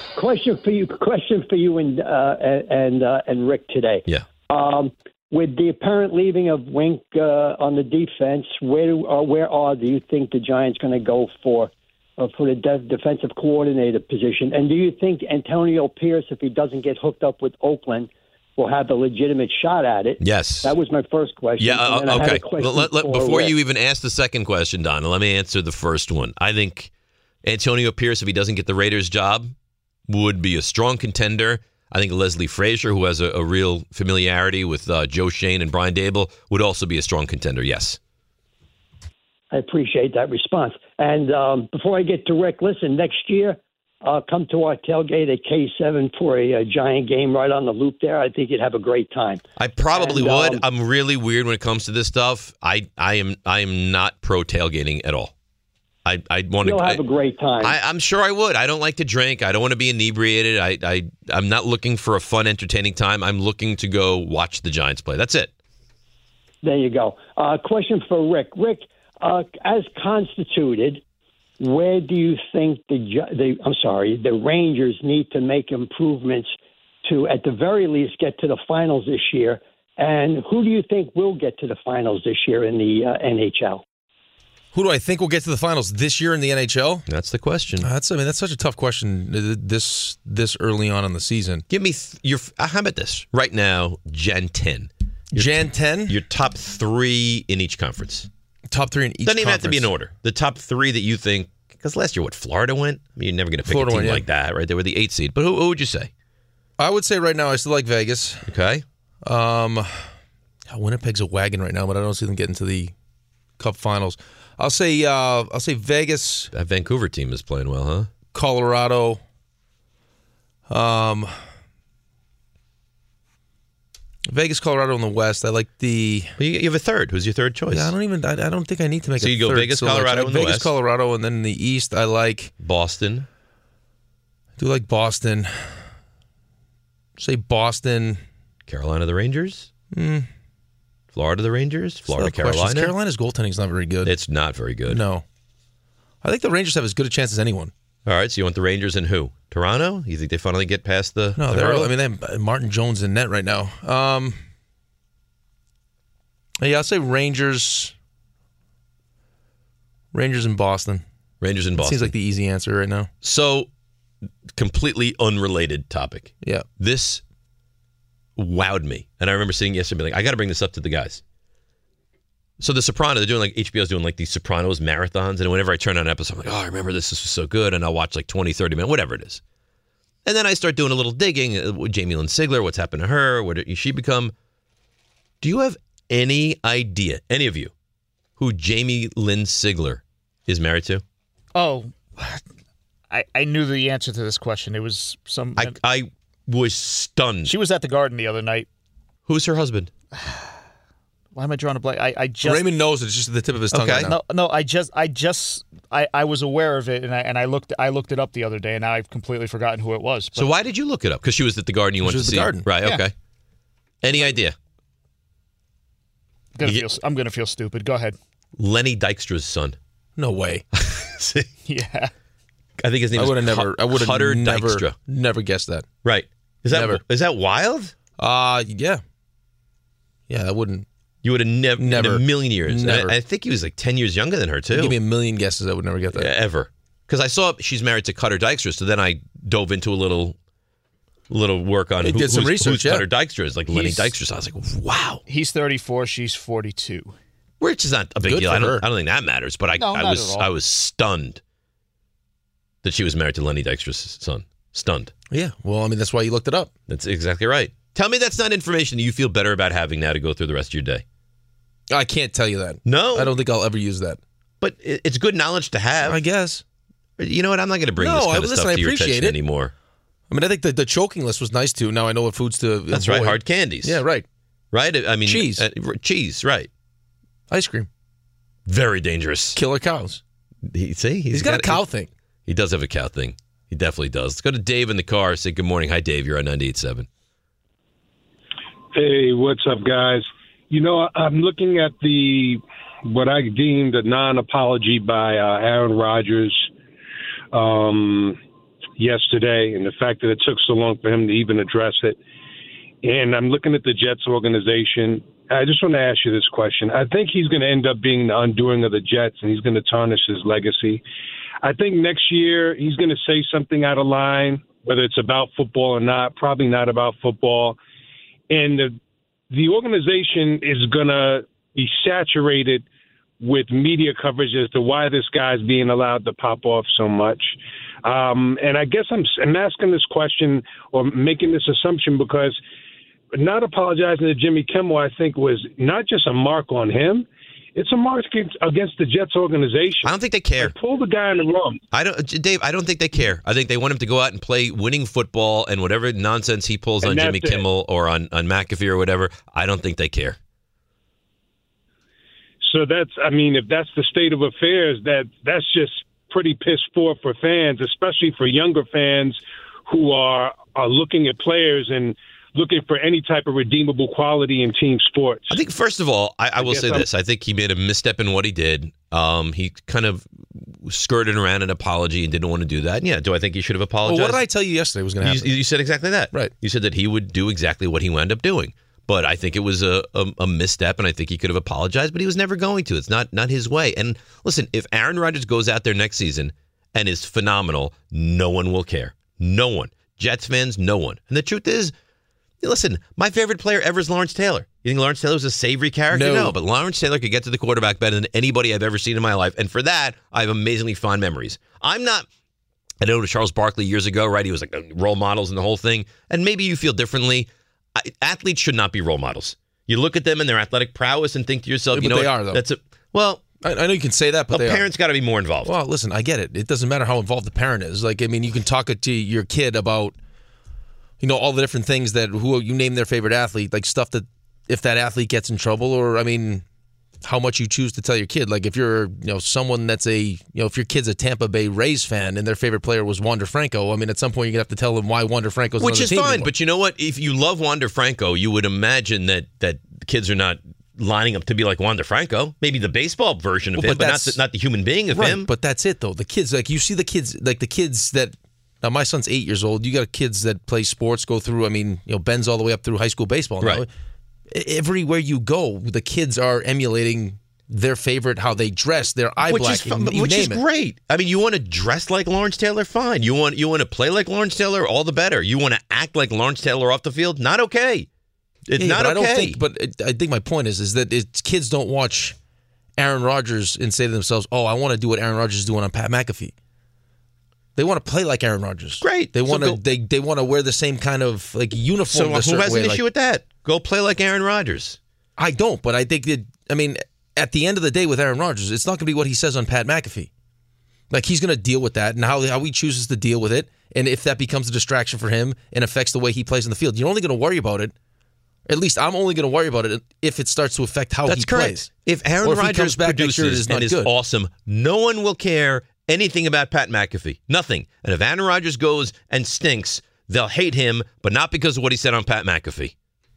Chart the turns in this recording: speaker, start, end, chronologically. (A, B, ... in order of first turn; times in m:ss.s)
0:00.1-0:23.5 A
0:20.2-0:20.7 B
0:21.6-0:26.9 B
0:27.4-0:29.5 B
0:30.1-0:38.0 B
0:39.5-0:50.6 A
0:49.6-0:55.3 B
0:56.0-0:57.0 B
0:56.6-0:57.8 A
0:57.6-1:05.5 B
1:06.6-1:11.0 A
1:11.6-1:16.5 A
1:17.0-1:23.8 A
1:24.7-1:27.0 C
1:27.1-1:27.9 B
1:27.8-1:31.6 C
1:31.7-1:38.3 B
1:35.3-1:36.2 C
1:38.7-1:39.9 C
1:39.2-1:46.1 B
1:43.6-1:44.2 C
1:46.8-1:48.4 C
1:48.5-1:48.8 B
1:49.2-1:49.9 C
1:50.7-1:52.9 C
1:53.6-1:56.5 C
1:56.5-1:58.1 B
1:58.3-1:59.2 C
2:00.7-2:01.3 C
2:04.3-2:06.3 C
2:06.4-2:07.9 B
2:07.7-2:12.5 C
2:09.2-2:10.7 B
2:12.6-2:13.3 B
2:14.6-2:15.5 C
2:17.2-2:18.2 C
2:18.7-2:19.7 B
2:19.9-2:20.3 C
2:21.1-2:22.9 B
2:22.1-2:24.1 C
2:24.0-2:25.0 B
2:24.9-2:25.2 C
2:26.2-2:27.7 C
2:28.0-2:31.9 B
2:31.4-2:34.4 C
2:36.6-2:37.9 C
2:40.1-2:41.0 C
2:41.4-2:42.1 B
2:41.8-2:43.1 C
2:43.2-2:43.7 B
2:44.5-2:47.2 B
2:48.4-2:51.2 B
2:52.6-2:59.4 B
3:00.2-3:04.3 B
3:05.4-3:07.7 B
3:08.4-3:11.0 B
3:11.5-3:12.4 D
3:13.1-3:15.8 D
3:15.6-3:17.5 B
3:17.4-3:18.7 D
3:19.3-3:19.9 B
3:20.1-3:20.6 D
3:21.3-3:22.7 D
3:22.4-3:24.2 C
3:23.7-3:24.1 B
3:24.0-3:30.5 D
3:30.3-3:33.1 B
3:32.0-3:33.0 C
3:34.0-3:34.5 B
3:36.6-3:38.2 D
3:38.6-3:39.8 B
3:40.2-3:40.6 C
3:40.7-3:41.5 B
3:41.6-3:42.1 D
3:42.8-3:45.0 B
3:43.1-3:45.8 C
3:46.0-3:47.9 B
3:46.7-3:47.0 C
3:48.2-3:49.0 C
3:50.3-3:50.8 C
3:51.2-3:55.0 B
3:51.8-3:53.2 C
3:54.7-3:56.3 C
3:56.1-4:00.4 B
4:01.3-4:05.2 B
4:02.0-4:03.0 C
4:03.7-4:04.1 C
4:05.3-4:07.1 D
4:07.6-4:11.4 B
4:08.2-4:08.8 C
4:09.8-4:10.5 D
4:12.8-4:15.1 B
4:15.3-4:16.7 C
4:16.9-4:21.0 B
4:21.9-4:24.2 C
4:22.8-4:23.3 B
4:24.6-4:26.2 B
4:26.0-4:26.6 C
4:27.2-4:29.7 B
4:28.0-4:29.4 C
4:30.3-4:34.2 C
4:32.9-4:34.0 B
4:34.7-4:36.7 B
4:35.2-4:35.6 C
4:37.5-4:37.9 C
4:38.7-4:39.6 B
4:39.5-4:40.2 C
4:40.7-4:41.8 B
4:41.3-4:42.1 C
4:42.5-4:47.1 B
4:48.9-4:56.7 E
4:57.5-4:58.4 E
4:59.0-5:02.2 E
5:03.0-5:11.0 E
5:11.6-5:17.8 E
5:18.5-5:19.0 E
5:19.5-5:22.8 E
5:23.4-5:32.6 E
5:33.3-5:41.8 E
5:40.0-5:40.7 B
5:41.9-5:50.4 B
5:47.0-5:47.6 E
5:52.6-6:05.6 E
6:05.5-6:14.4 B
6:06.6-6:07.0 E
6:14.0-6:15.5 C
6:15.2-6:31.9 B
6:32.6-6:42.3 B
6:36.1-6:36.6 C
6:43.0-6:53.4 B
6:51.9-6:52.6 C
6:53.6-6:54.9 C
6:54.5-6:55.7 B
6:55.6-7:00.1 C
7:01.2-7:06.6 C
7:07.2-7:16.5 C
7:15.8-7:25.5 B
7:23.8-7:24.4 C
7:25.1-7:33.9 C
7:34.5-7:40.6 C
7:39.4-7:48.1 B
7:48.7-7:49.6 B
7:48.8-7:52.3 C
7:53.0-7:56.5 C
7:57.8-8:03.0 C
7:59.0-7:59.8 B
8:02.1-8:05.0 B
8:05.4-8:10.3 C
8:11.1-8:17.9 C
8:18.7-8:21.9 C
8:21.2-8:32.9 B
8:22.4-8:24.1 C